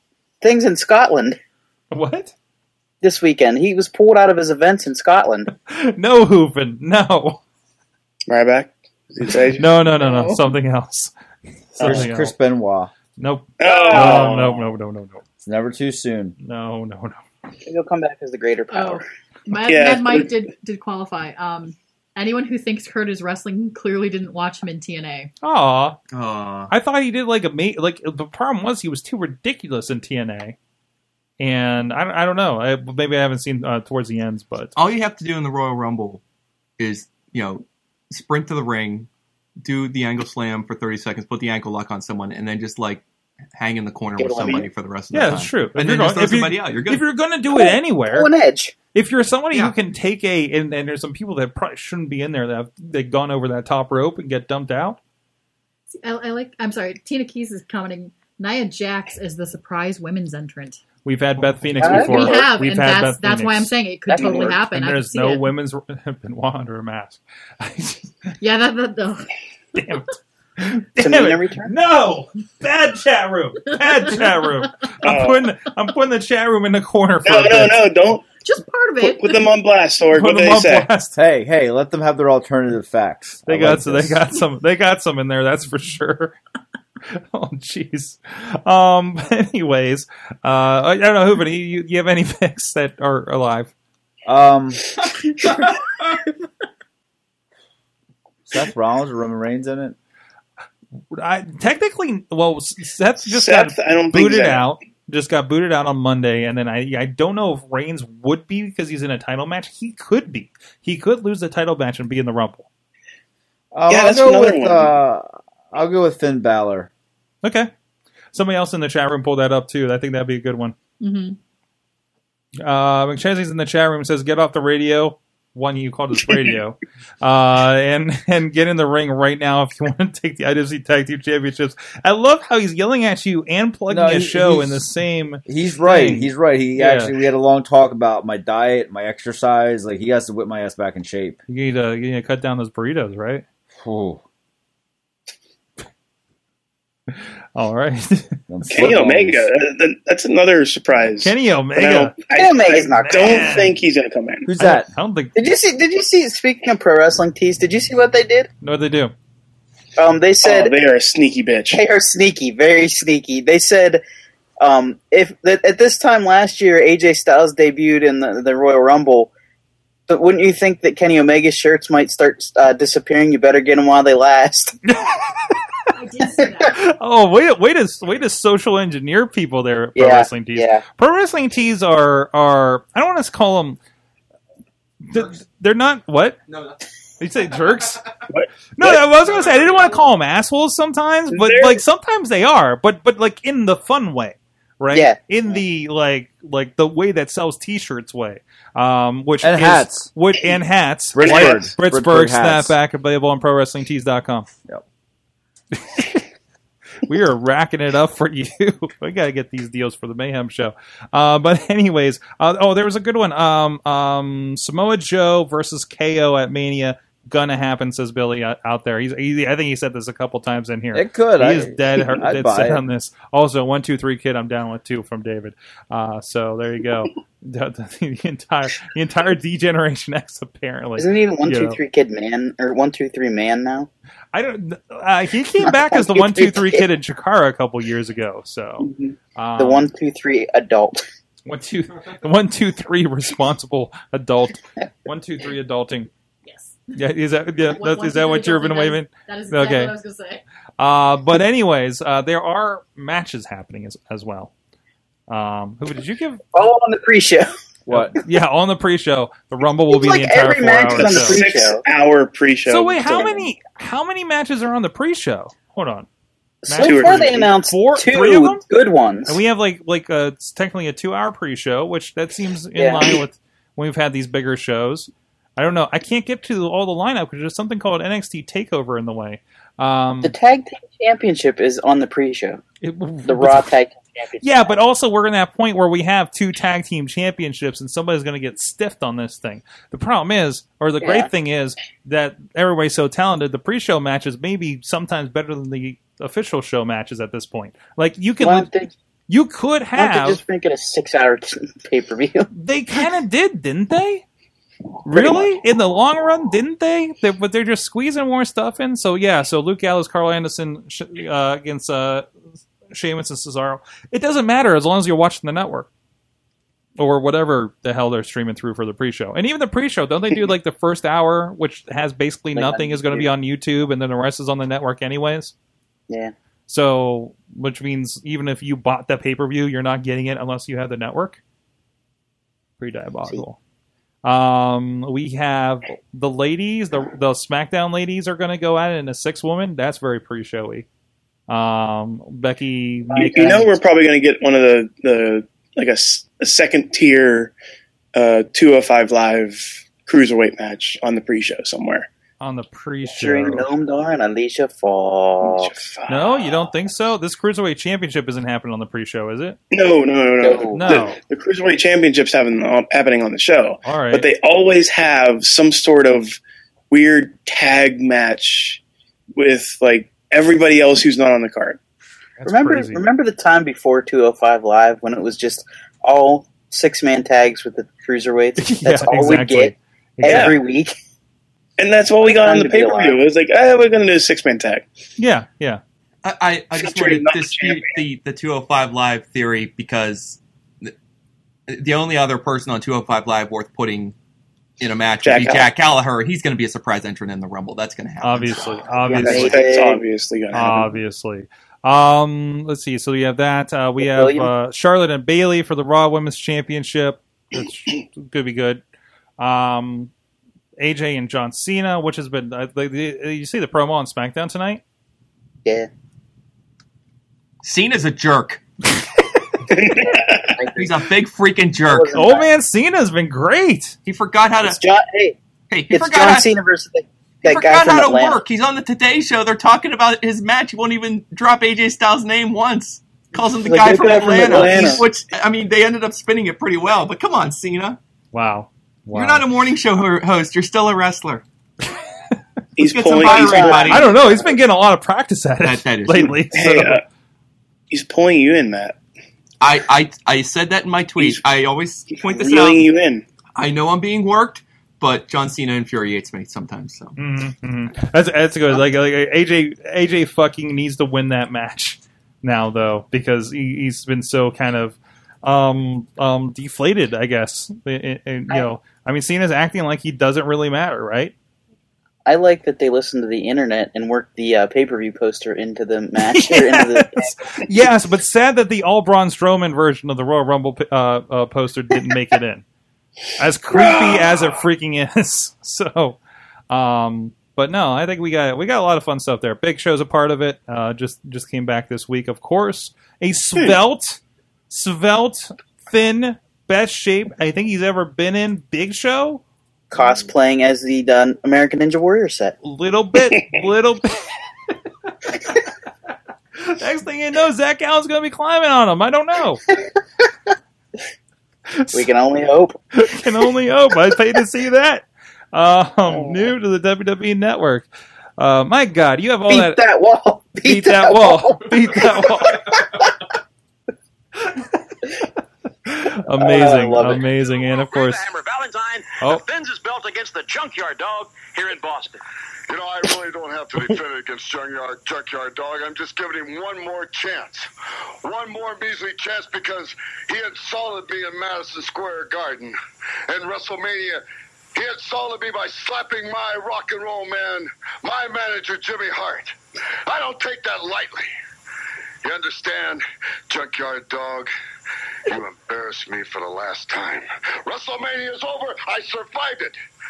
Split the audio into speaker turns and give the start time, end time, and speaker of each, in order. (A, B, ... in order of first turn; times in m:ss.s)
0:00.4-0:01.4 A
0:01.9-0:02.3 B
0:03.0-0:05.5 A
0:05.6-0:07.4 B
0:08.3-0:09.7 C
0:09.6-0:11.1 B
0:09.9-0:10.4 D
0:11.7-0:12.3 B
0:11.8-0:12.9 E
0:13.2-0:15.2 B
0:13.6-0:14.6 C
0:13.6-0:14.2 A
0:15.4-0:16.3 E
0:16.4-0:17.2 B
0:17.6-0:19.0 A
0:18.7-0:25.3 D
0:19.6-0:20.3 C
0:25.4-0:26.0 B
0:26.1-0:26.7 F
0:26.7-0:30.6 B
0:31.4-0:34.7 B
0:34.8-0:36.2 F
0:36.8-0:39.1 F
0:39.6-0:43.0 F
0:43.6-0:47.0 F
0:44.2-0:44.7 A
0:45.1-0:48.3 B
0:47.5-0:48.7 A
0:48.9-0:55.0 B
0:56.0-1:00.8 D
1:01.0-1:03.7 B
1:01.8-1:02.4 A
1:01.8-1:05.5 D
1:04.1-1:04.6 A
1:04.4-1:08.1 B
1:08.4-1:09.3 D
1:09.8-1:17.8 B
1:11.0-1:11.7 A
1:13.7-1:14.7 D
1:15.0-1:15.5 C
1:17.2-1:18.3 C
1:18.3-1:19.5 D
1:19.0-1:20.9 C
1:20.1-1:21.2 B
1:21.2-1:24.2 E
1:23.4-1:26.4 B
1:27.1-1:33.7 B
1:34.2-1:34.9 E
1:38.4-1:40.0 E
1:41.1-1:52.6 B
1:43.2-1:44.6 C
1:53.7-1:56.9 E
1:53.9-1:54.9 C
1:57.4-1:57.7 B
1:58.3-2:00.7 B
2:01.0-2:01.4 D
2:02.6-2:17.1 B
2:13.9-2:14.8 E
2:15.4-2:21.4 E
2:21.5-2:23.4 B
2:23.8-2:24.2 E
2:27.1-2:28.4 B
2:28.5-2:29.5 E
2:28.7-2:34.5 C
2:31.2-2:32.2 B
2:32.3-2:33.6 A
2:32.8-2:33.8 B
2:34.4-2:34.9 E
2:34.6-2:35.3 B
2:35.4-2:38.5 A
2:38.6-2:39.1 B
2:40.0-2:40.7 A
2:40.4-2:41.8 C
2:41.7-2:44.0 A
2:44.6-2:49.3 A
2:50.1-2:54.8 A
2:55.9-2:56.8 D
2:56.7-3:03.8 B
3:00.0-3:00.8 A
3:05.1-3:06.4 B
3:06.5-3:06.8 F
3:07.2-3:08.0 B
3:08.3-3:09.0 C
3:08.8-3:24.5 B
3:11.3-3:11.8 C
3:14.9-3:15.2 A
3:19.4-3:20.1 E
3:21.1-3:22.7 E
3:21.2-3:21.6 C
3:25.7-3:26.2 B
3:27.0-3:51.8 B
3:40.9-3:42.8 E
3:51.0-3:53.9 A
3:54.3-3:59.9 B
3:55.6-3:56.8 A
3:58.8-4:01.0 A
4:01.4-4:06.1 B
4:06.4-4:06.8 D
4:07.0-4:09.9 B
4:07.6-4:10.4 D
4:10.8-4:14.5 B
4:15.3-4:16.4 B
4:16.5-4:17.5 A
4:17.8-4:18.2 E
4:17.9-4:21.4 B
4:19.9-4:21.8 A
4:20.9-4:23.4 C
4:22.7-4:26.1 B
4:26.6-4:29.4 A
4:26.7-4:28.6 B
4:26.7-4:27.5 C
4:29.3-4:40.3 B
4:32.8-4:33.2 A
4:40.2-4:42.6 A
4:42.8-4:43.7 B
4:43.3-4:44.7 A
4:44.4-4:58.7 B
4:51.0-4:51.3 A
4:58.4-4:58.9 A
4:59.3-5:00.4 B
5:00.0-5:02.5 A
5:02.5-5:04.2 B
5:05.0-5:12.3 B
5:05.1-5:05.5 A
5:12.9-5:15.9 B
5:17.0-5:25.5 B
5:22.5-5:23.3 A
5:26.7-5:31.4 B
5:32.8-5:33.6 B
5:34.2-5:40.8 B
5:41.5-5:43.7 B
5:43.1-5:43.6 A
5:43.1-5:47.5 C
5:48.1-5:52.1 C
5:52.4-5:53.7 B
5:53.1-5:55.7 A
5:55.4-5:56.7 C
5:56.1-5:59.6 B
5:59.7-6:06.4 C
6:00.4-6:01.0 A
6:00.7-6:01.2 B
6:03.8-6:04.3 B
6:06.9-6:08.8 C
6:09.4-6:11.8 C
6:12.4-6:13.0 B
6:12.4-6:20.9 A
6:18.6-6:20.6 B
6:20.2-6:20.5 C
6:21.8-6:24.9 C
6:22.2-6:23.2 A
6:25.2-6:25.8 B
6:26.2-6:30.9 F
6:26.8-6:27.9 C
6:31.7-6:34.1 F
6:34.8-6:38.8 F
6:35.2-6:35.7 C
6:38.2-6:39.6 B
6:39.0-6:40.0 A
6:39.2-6:41.0 C
6:40.5-6:48.8 B
6:44.0-6:44.5 A
6:49.4-6:50.1 B
6:50.8-6:54.8 B
6:57.6-6:58.6 F
6:59.7-7:00.5 C
7:00.6-7:00.9 A
7:00.7-7:02.1 F
7:01.9-7:02.5 A
7:02.1-7:04.0 B
7:04.0-7:04.8 F
7:04.6-7:05.4 A
7:05.7-7:06.5 F
7:05.9-7:08.4 A
7:07.4-7:18.0 F
7:13.6-7:15.0 A
7:18.3-7:19.5 B
7:19.1-7:21.4 F
7:22.8-7:24.0 C
7:22.8-7:24.1 F
7:23.2-7:24.5 A
7:23.9-7:27.0 B
7:25.6-7:26.4 F
7:26.5-7:27.0 C
7:27.9-7:29.0 C
7:29.6-7:32.8 F
7:32.1-7:33.2 C
7:33.5-7:37.1 F
7:37.2-7:51.3 B
7:52.2-7:57.6 A
7:56.3-8:02.6 B
8:03.4-8:06.2 B
8:03.7-8:04.3 C
8:06.7-8:19.4 B
8:19.9-8:22.5 A
8:22.6-8:24.3 B
8:26.6-8:29.6 B
8:31.8-8:32.1 B
8:31.9-8:32.8 A
8:32.9-8:39.8 B
8:39.5-8:43.0 A
8:40.6-8:42.8 B
8:45.8-8:48.3 B
8:46.4-8:47.2 A
8:47.4-8:52.2 G
8:52.7-8:57.7 H
8:58.2-9:02.8 H
9:03.3-9:04.2 H
9:04.7-9:09.5 H
9:10.0-9:11.3 H
9:12.2-9:14.5 H
9:15.2-9:19.8 H